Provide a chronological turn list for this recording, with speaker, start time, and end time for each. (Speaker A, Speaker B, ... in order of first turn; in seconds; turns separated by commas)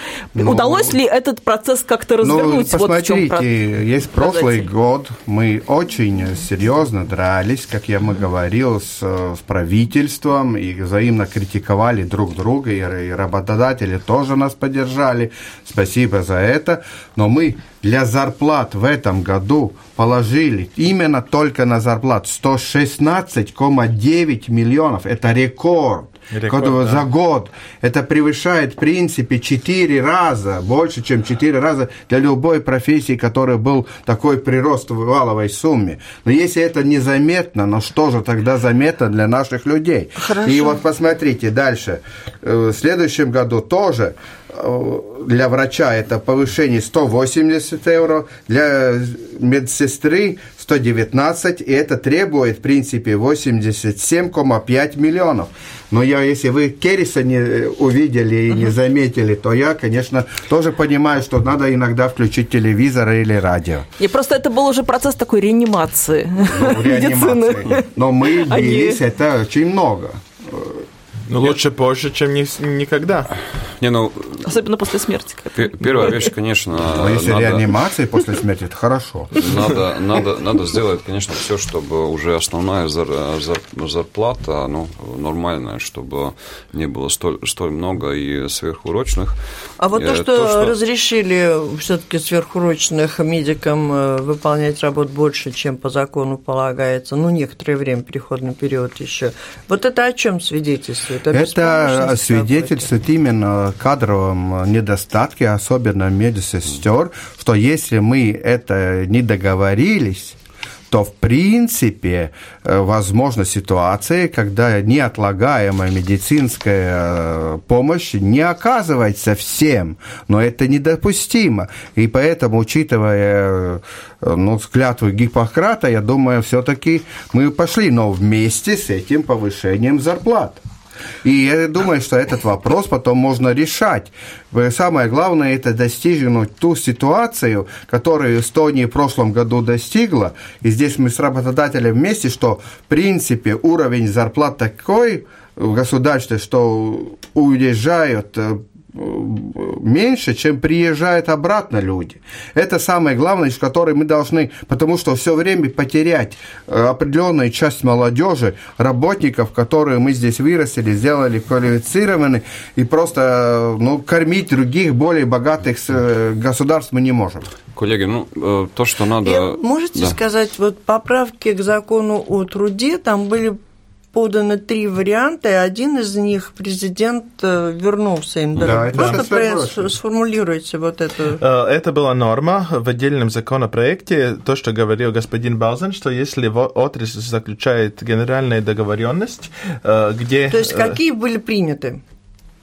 Speaker A: 0.3-1.0, Speaker B: 0.3-3.5, Speaker A: 2.2-63.9, Speaker B: 4.2-4.6, Speaker C: 26.3-27.1, Speaker B: 40.4-40.7, Speaker B: 64.0-69.0, Speaker A: 66.4-70.8, Speaker C: 71.3-73.3, Speaker D: 73.8-74.5, Speaker B: 74.4-76.3, Speaker D: 75.5-77.7, Speaker A: 76.9-79.6, Speaker D: 79.4-89.4, Speaker E: 89.8-102.9, Speaker D: 90.0-90.8, Speaker A: 101.3-110.4, Speaker A: 110.9-130.6, Speaker A: 131.2-167.5, Speaker D: 167.8-170.2, Speaker E: 169.2-173.6, Speaker E: 174.1-181.4, Speaker A: 178.6-179.9, Speaker C: 181.4-191.0, Speaker E: 190.5-192.0